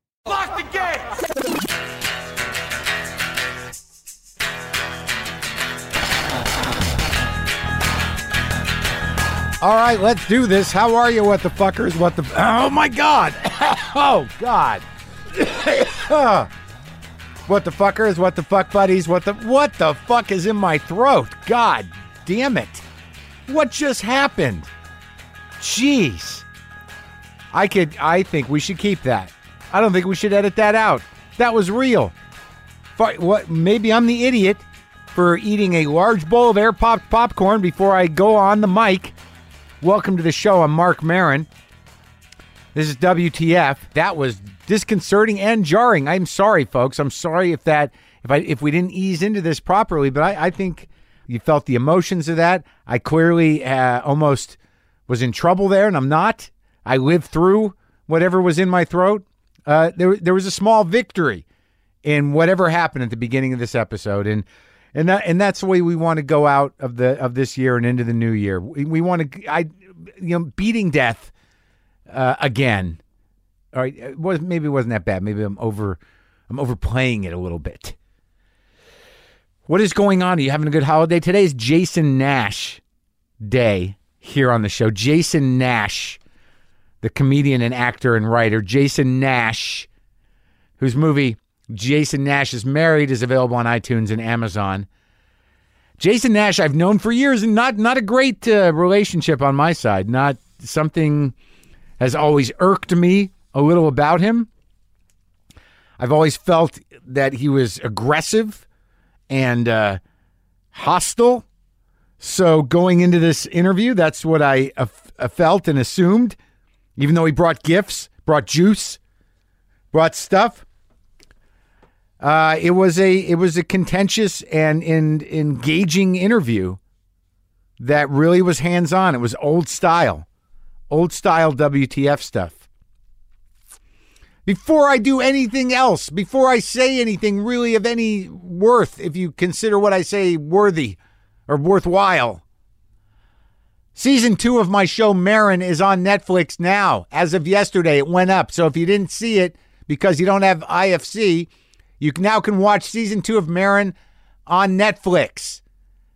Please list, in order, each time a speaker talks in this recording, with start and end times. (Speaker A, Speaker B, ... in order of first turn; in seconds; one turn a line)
Speaker A: 9.6-16.5
Speaker A: 17.5-22.8
Speaker A: 23.5-24.7
Speaker A: 25.6-26.5
Speaker A: 27.5-32.1
Speaker A: 33.0-39.1
Speaker A: 39.8-41.5
Speaker A: 42.7-54.6
Speaker A: 55.1-61.4
Speaker A: 62.0-71.3
Speaker A: 72.1-73.0
Speaker A: 73.7-76.0
Speaker A: 76.5-78.0
Speaker A: 79.7-82.8
Speaker A: 83.4-86.2
Speaker A: 87.0-89.9
Speaker A: 90.8-94.9
Speaker A: 96.0-101.3
Speaker A: 102.0-104.5
Speaker A: 106.0-108.6
Speaker A: 109.3-110.0
Speaker A: 110.7-111.5
Speaker A: 112.2-116.4
Speaker A: 117.0-119.0
Speaker A: 119.9-120.6
Speaker A: 122.2-126.8
Speaker A: 127.8-130.2
Speaker A: 130.9-132.6
Speaker A: 134.5-141.0
Speaker A: 141.5-142.4
Speaker A: 143.9-151.5
Speaker A: 152.0-153.9
Speaker A: 154.5-155.6